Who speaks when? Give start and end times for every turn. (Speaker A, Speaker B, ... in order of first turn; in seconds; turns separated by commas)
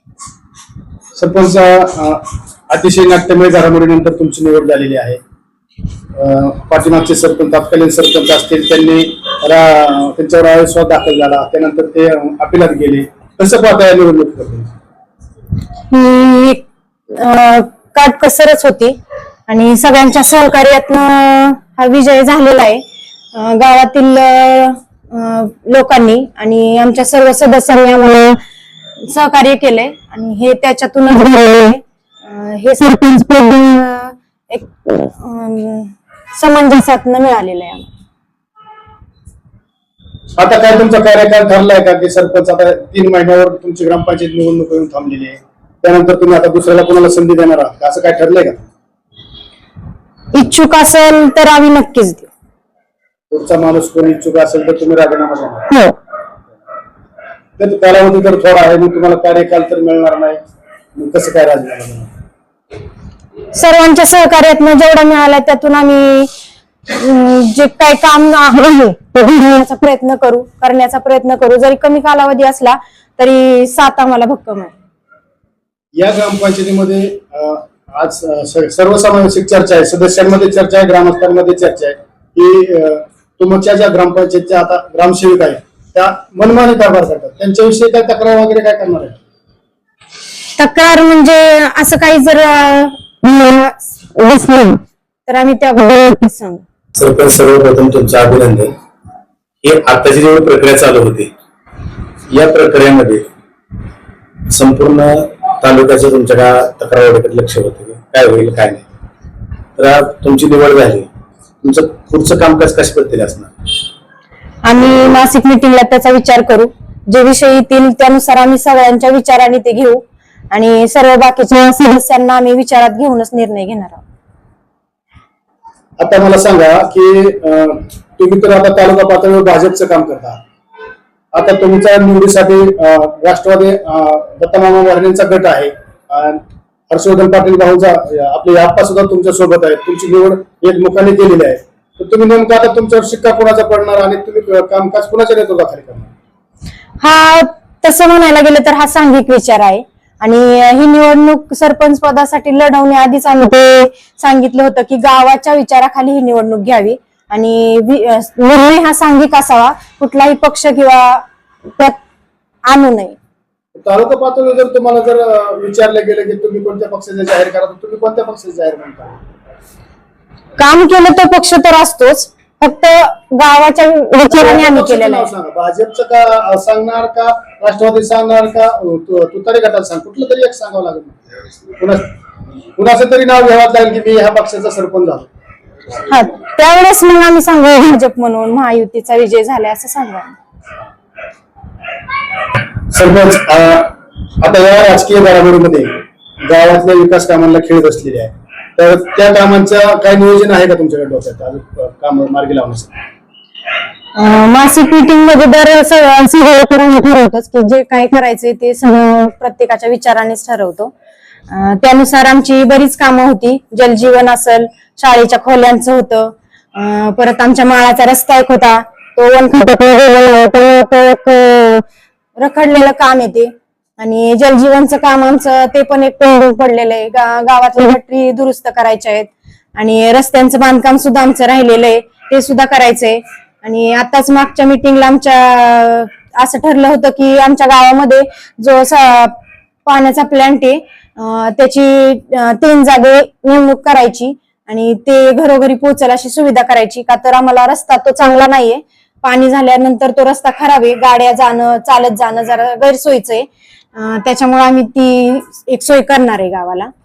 Speaker A: 1.1-5.2, Speaker A: 6.2-14.7, Speaker B: 15.9-18.9, Speaker B: 19.5-28.4, Speaker B: 29.0-37.9, Speaker A: 40.4-48.7, Speaker B: 50.3-52.3, Speaker A: 53.3-55.7, Speaker A: 57.6-60.4, Speaker A: 60.9-62.1, Speaker B: 63.5-66.3, Speaker B: 66.9-74.7, Speaker A: 76.0-89.2, Speaker B: 90.6-96.6, Speaker C: 97.0-98.7, Speaker C: 99.6-101.3, Speaker C: 102.3-103.3, Speaker C: 104.5-108.8, Speaker C: 109.8-111.0, Speaker C: 111.6-113.5, Speaker B: 114.6-124.0, Speaker A: 126.0-130.4, Speaker A: 131.3-146.1, Speaker B: 147.0-161.2, Speaker B: 162.7-163.2, Speaker A: 163.7-169.2, Speaker B: 170.6-175.3, Speaker A: 174.3-181.2, Speaker A: 181.8-182.1, Speaker A: 182.8-185.3, Speaker B: 186.1-190.3, Speaker A: 192.9-202.9, Speaker B: 204.2-210.9, Speaker B: 211.5-221.8, Speaker B: 222.4-256.9